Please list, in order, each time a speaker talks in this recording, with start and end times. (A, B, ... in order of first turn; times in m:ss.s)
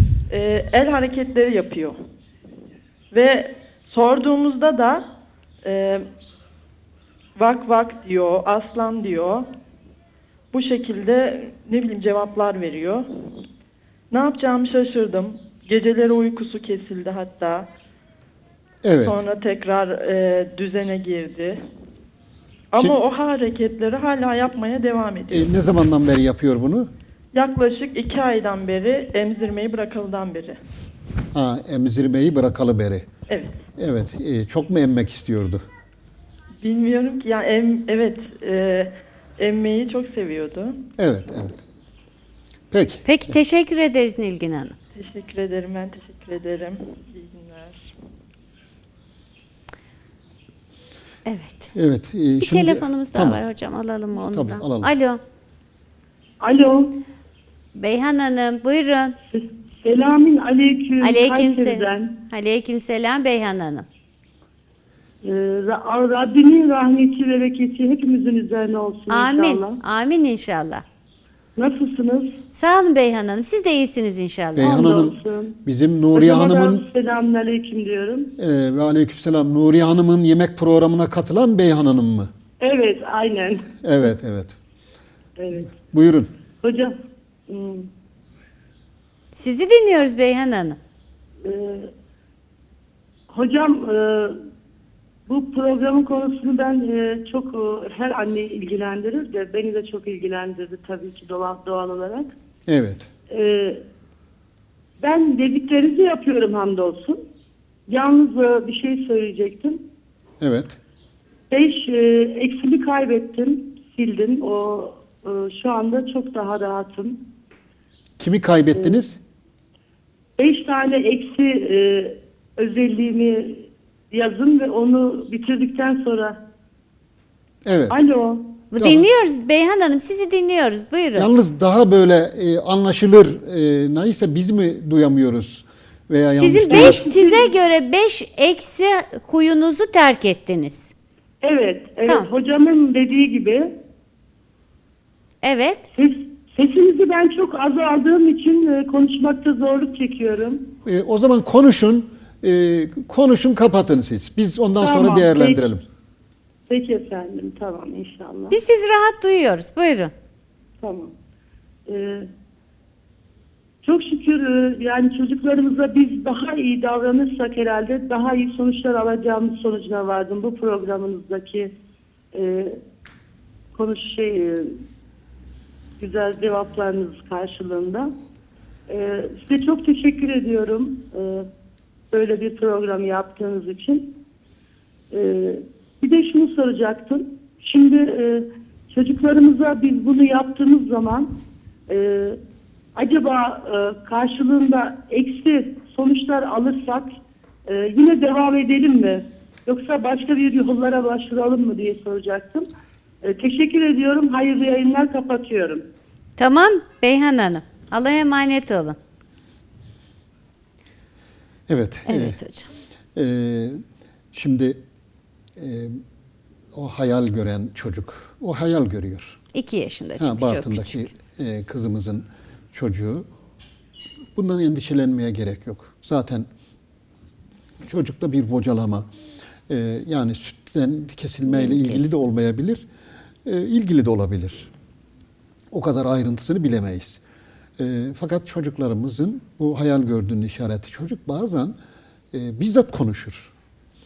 0:00.3-0:02.0 A
0:03.1-0:05.1 A
0:05.6-0:06.0 A
0:07.4-0:09.5 A
0:10.5-0:13.0 A
0:14.1-0:17.7 A
0:18.8-0:19.2 B
0:19.0-0:21.6 A
0:22.7-0:25.5 A
0:25.3-0:26.9 B
0:27.3-0:30.6 A
0:31.3-0:33.1 B
0:33.3-0:33.5 A
0:33.8-0:35.6 B
0:36.6-0:40.8 A
0:41.0-0:41.6 B
0:42.7-0:43.4 B
0:43.0-0:44.8 C
0:44.9-0:47.8 A
0:51.2-0:51.7 C
0:51.7-0:53.4 B
0:52.4-0:55.2 C
0:54.1-0:54.9 B
0:56.4-0:57.0 D
0:57.7-0:59.2 C
0:59.3-1:02.1 D
1:01.0-1:03.9 C
1:05.2-1:09.8 D
1:09.1-1:10.8 C
1:11.6-1:12.4 D
1:12.5-1:14.8 C
1:14.6-1:16.8 B
1:14.6-1:15.6 D
1:16.1-1:18.3 D
1:18.4-1:22.3 B
1:22.6-1:23.6 D
1:23.8-1:24.6 B
1:25.4-1:25.7 D
1:25.7-1:26.3 B
1:26.6-1:26.9 D
1:27.5-1:27.9 D
1:29.3-1:30.8 C
1:31.4-1:31.9 D
1:33.3-1:34.4 D
1:35.3-1:42.3 D
1:42.7-1:43.1 B
1:43.3-1:43.8 D
1:45.0-1:47.2 D
1:47.9-1:49.8 D
1:50.4-1:50.8 B
1:51.5-1:57.2 D
1:58.2-1:59.2 B
2:00.4-2:06.4 D
2:07.6-2:08.0 B
2:07.9-2:08.6 D
2:08.7-2:11.3 C
2:08.8-2:09.1 B
2:11.2-2:17.0 B
2:16.3-2:20.9 C
2:16.7-2:17.5 D
2:21.4-2:23.7 D
2:25.4-2:25.8 C
2:25.9-2:30.6 D
2:30.8-2:35.8 B
2:34.8-2:35.6 D
2:36.7-2:38.6 D
2:38.5-2:40.1 C
2:40.8-2:41.1 D
2:41.9-2:42.3 D
2:43.8-2:51.7 D
2:52.3-2:52.8 D
2:53.7-2:54.8 D
2:56.0-2:58.1 D
2:58.9-3:01.5 D
3:02.1-3:04.1 D
3:05.1-3:11.3 D
3:11.9-3:12.4 D
3:12.9-3:17.1 D
3:17.6-3:22.6 D
3:23.2-3:25.8 D
3:26.4-3:29.0 C
3:31.7-3:32.4 B
3:32.1-3:32.7 C
3:33.1-3:33.8 B
3:34.3-3:34.8 B
3:35.6-3:36.0 B
3:36.7-3:39.4 B
3:39.5-3:41.1 C
3:40.2-3:43.3 B
3:44.4-3:46.5 B
3:47.8-3:49.1 B
3:49.7-3:52.8 B
3:51.6-3:52.0 C
3:53.4-3:54.7 B
3:55.7-3:57.2 B
3:57.8-4:01.8 B
4:02.3-4:03.5 B